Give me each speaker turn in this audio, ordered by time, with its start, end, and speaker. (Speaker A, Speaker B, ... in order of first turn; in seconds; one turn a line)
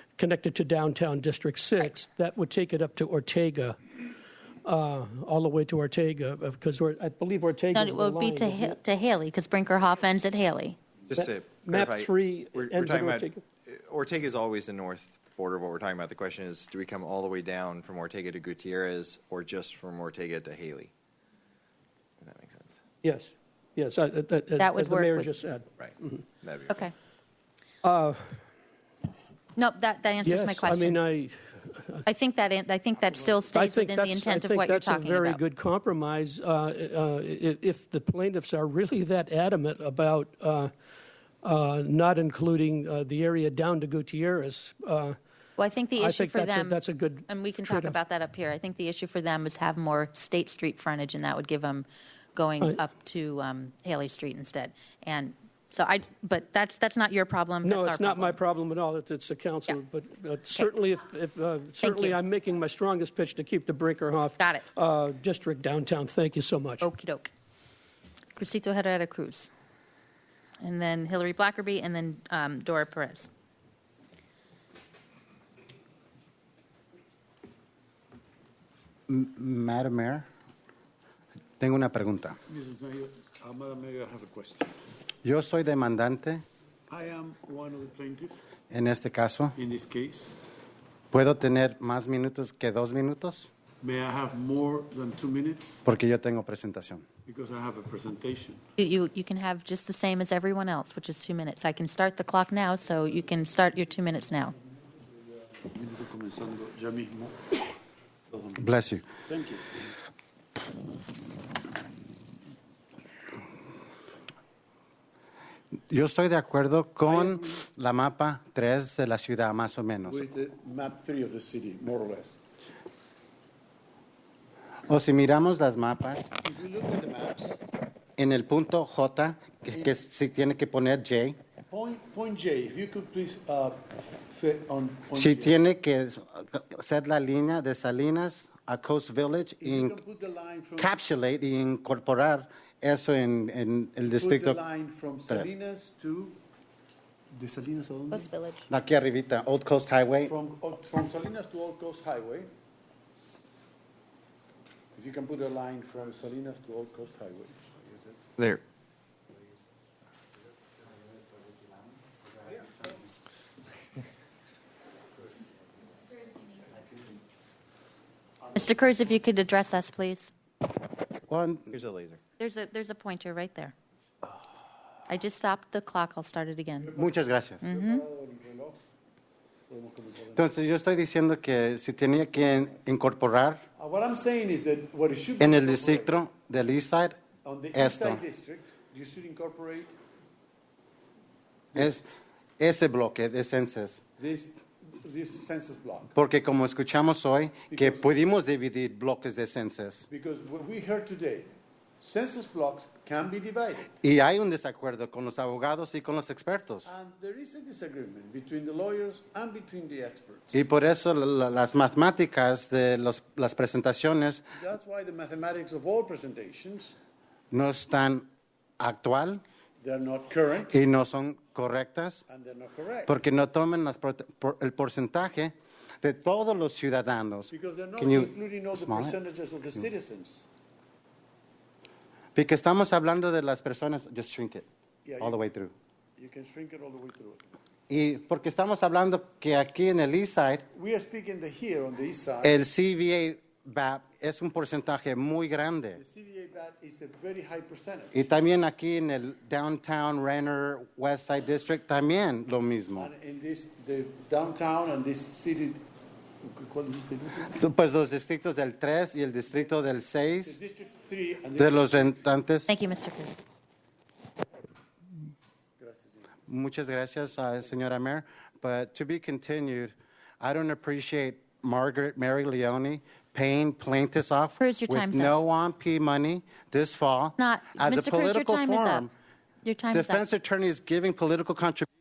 Speaker A: 0.2-3.8
Speaker A: 4.6-8.8
Speaker B: 7.7-10.9
Speaker C: 11.1-20.9
Speaker A: 11.1-13.4
Speaker C: 22.2-22.8
Speaker A: 23.0-26.2
Speaker B: 24.6-25.3
Speaker C: 25.8-26.8
Speaker B: 26.7-26.9
Speaker A: 27.8-28.4
Speaker B: 29.6-31.0
Speaker A: 30.2-32.1
Speaker B: 32.0-35.4
Speaker A: 33.5-40.7
Speaker A: 41.4-45.2
Speaker B: 45.6-58.4
Speaker A: 46.0-48.0
Speaker A: 57.6-66.9
Speaker B: 61.8-62.2
Speaker B: 64.4-64.6
Speaker B: 66.8-67.3
Speaker B: 68.3-69.5
Speaker B: 70.6-73.3
Speaker D: 79.1-80.2
Speaker D: 81.6-82.4
Speaker E: 82.5-84.7
Speaker D: 85.2-86.4
Speaker E: 86.9-88.4
Speaker D: 88.7-89.6
Speaker E: 89.5-90.3
Speaker D: 91.1-93.5
Speaker E: 93.8-95.8
Speaker D: 95.8-97.0
Speaker E: 97.2-98.6
Speaker B: 98.8-104.5
Speaker E: 105.2-107.6
Speaker E: 108.3-108.6
Speaker D: 108.6-109.1
Speaker E: 109.3-109.7
Speaker D: 115.9-120.2
Speaker E: 117.1-117.6
Speaker E: 120.0-122.4
Speaker D: 124.9-126.3
Speaker E: 126.4-127.6
Speaker D: 128.2-131.4
Speaker E: 131.7-135.6
Speaker D: 135.1-140.0
Speaker E: 139.6-140.9
Speaker D: 140.8-144.6
Speaker E: 144.1-146.4
Speaker E: 147.3-148.3
Speaker B: 148.1-148.7
Speaker D: 148.7-150.3
Speaker E: 150.2-152.5
Speaker E: 154.9-157.7
Speaker B: 168.5-170.3
Speaker D: 171.3-171.7
Speaker C: 171.7-172.2
Speaker B: 172.4-173.7
Speaker B: 175.1-176.9
Speaker E: 176.8-178.8
Speaker D: 176.9-177.6
Speaker B: 177.6-178.0
Speaker E: 179.7-180.5
Speaker D: 180.3-183.6
Speaker E: 183.8-186.1
Speaker D: 185.4-187.2
Speaker E: 187.4-189.9
Speaker D: 187.7-188.2
Speaker D: 191.8-192.1
Speaker D: 192.6-194.0
Speaker E: 194.2-196.1
Speaker D: 196.2-200.1
Speaker E: 197.7-198.1
Speaker E: 200.1-201.5
Speaker E: 202.0-203.9
Speaker D: 204.0-206.9
Speaker E: 206.8-210.6
Speaker D: 210.5-214.4
Speaker E: 214.6-217.0
Speaker D: 217.5-218.2
Speaker D: 218.8-219.4
Speaker E: 219.8-220.8
Speaker D: 220.7-222.2
Speaker E: 222.3-223.2
Speaker D: 223.1-229.1
Speaker E: 227.5-230.5
Speaker D: 232.3-234.7
Speaker E: 235.0-235.4
Speaker D: 235.2-235.7
Speaker E: 236.2-237.4
Speaker D: 237.9-240.6
Speaker E: 240.7-242.6
Speaker D: 242.4-246.0
Speaker E: 245.9-248.2
Speaker D: 248.1-253.1
Speaker E: 253.0-255.8
Speaker E: 256.4-257.5
Speaker D: 257.4-260.6
Speaker E: 260.4-262.2
Speaker D: 261.5-262.8
Speaker B: 262.7-263.4
Speaker E: 265.8-266.3
Speaker D: 266.5-279.1
Speaker B: 274.6-275.3
Speaker B: 277.4-279.1
Speaker B: 279.6-280.2
Speaker D: 279.9-281.9